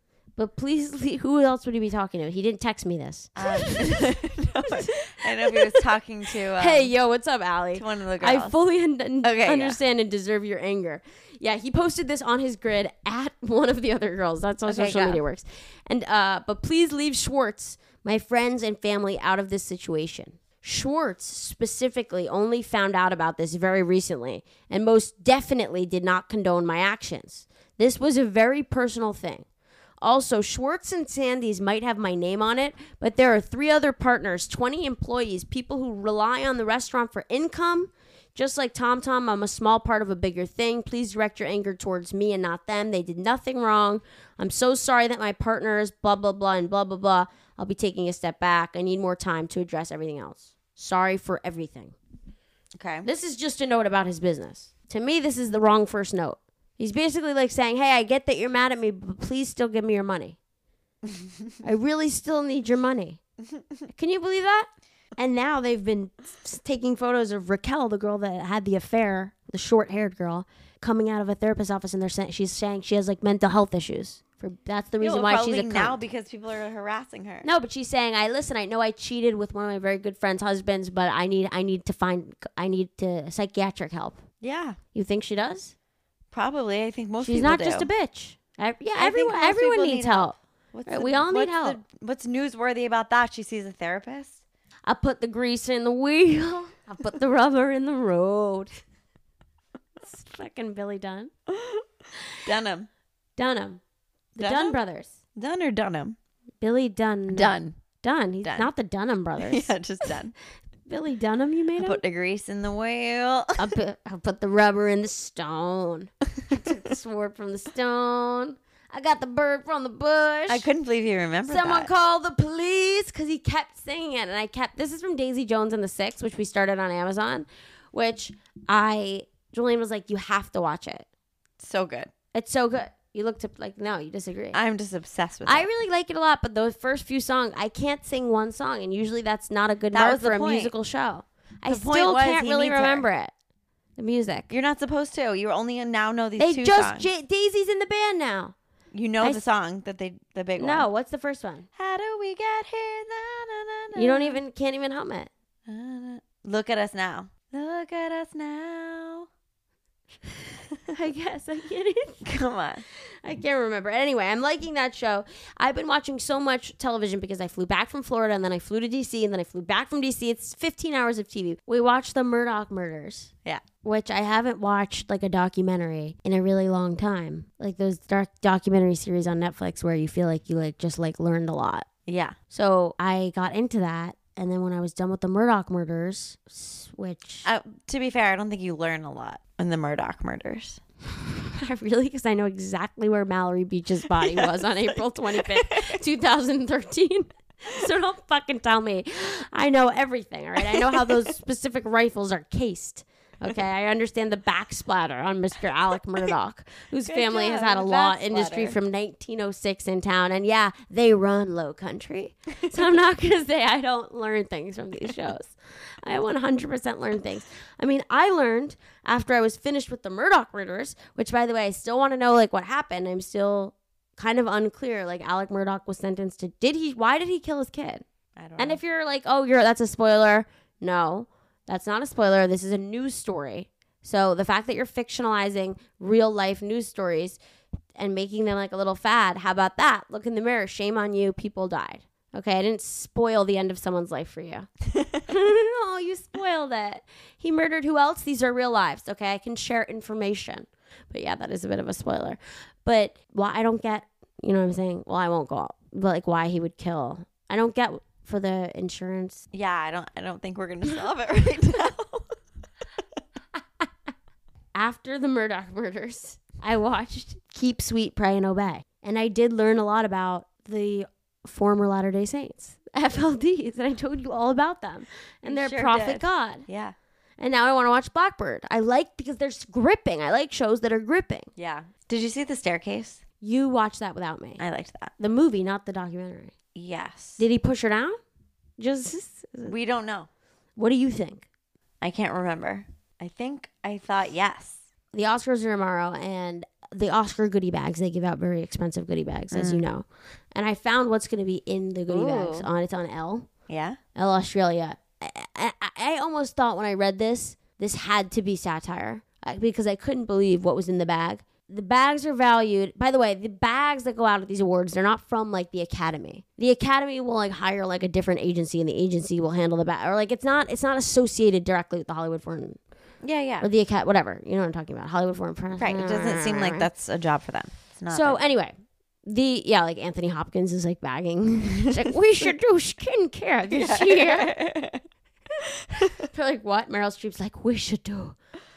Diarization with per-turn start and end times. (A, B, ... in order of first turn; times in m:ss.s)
0:00.4-0:04.1 A
0:03.4-0:06.9 B
0:04.7-0:05.8 A
0:06.5-0:29.4 A
0:07.7-0:08.5 B
0:09.2-0:09.8 B
0:14.7-0:15.2 B
0:30.0-0:51.9 A
0:52.7-0:53.1 B
0:53.0-1:00.4 A
1:01.0-1:01.3 B
1:01.6-1:03.2 A
1:03.9-1:16.0 A
1:15.0-1:17.5 B
1:17.4-1:24.2 A
1:24.4-1:24.8 B
1:24.9-1:25.7 A
1:26.3-1:27.9 B
1:27.2-1:31.8 A
1:28.9-1:34.4 B
1:34.8-1:38.8 A
1:40.0-1:41.3 A
1:41.5-1:41.8 B
1:42.4-1:42.9 B
1:43.4-1:43.8 A
1:44.4-1:44.8 B
1:44.4-1:45.2 A
1:45.4-1:46.2 B
1:46.6-1:49.7 A
1:47.3-1:47.8 B
1:48.4-1:48.7 B
1:49.4-1:50.3 B
1:50.9-1:52.0 A
1:51.8-1:53.7 B
1:53.6-2:00.7 A
2:00.5-2:01.9 B
2:01.5-2:11.1 A
2:11.6-2:12.1 B
2:12.3-2:14.6 A
2:14.5-2:15.7 B
2:15.4-2:23.3 A
2:19.9-2:20.7 B
2:21.7-2:23.0 B
2:24.0-2:24.5 A
2:24.5-2:27.1 B
2:26.4-2:28.5 A
2:28.9-2:30.8 B
2:30.6-2:31.7 A
2:31.8-2:34.4 B
2:33.9-2:35.3 A
2:35.7-2:39.3 B
2:40.9-2:42.2 A
2:42.2-2:42.8 B
2:43.2-2:53.3 A
2:53.8-3:01.9 A
3:02.0-3:02.4 B
3:02.5-3:07.5 A
3:07.4-3:10.8 B
3:11.3-3:48.0 A
3:14.1-3:16.0 B
3:20.7-3:21.1 B
3:27.0-3:28.8 B
3:48.4-3:48.8 B
3:48.6-3:57.4 A
3:58.0-4:04.7 A
4:05.2-4:19.4 A
4:19.5-4:22.4 B
4:24.7-4:36.6 A
4:35.4-4:36.9 B
4:37.4-4:41.5 A
4:41.6-4:43.2 B
4:43.4-4:44.6 A
4:44.6-4:45.1 B
4:45.2-4:46.5 A
4:46.7-4:47.4 B
4:47.4-4:48.2 A
4:48.8-4:49.7 A
4:49.6-4:50.3 B
4:50.8-4:51.4 A
4:52.0-4:54.8 B
4:55.1-5:03.5 A
4:59.5-4:59.8 B
5:02.1-5:02.7 B
5:03.7-5:04.0 B
5:04.1-5:22.8 A
5:23.2-5:23.7 B
5:23.6-5:26.9 A
5:25.8-5:28.4 B
5:28.1-5:34.5 A
5:33.7-5:35.0 B
5:36.0-5:38.4 A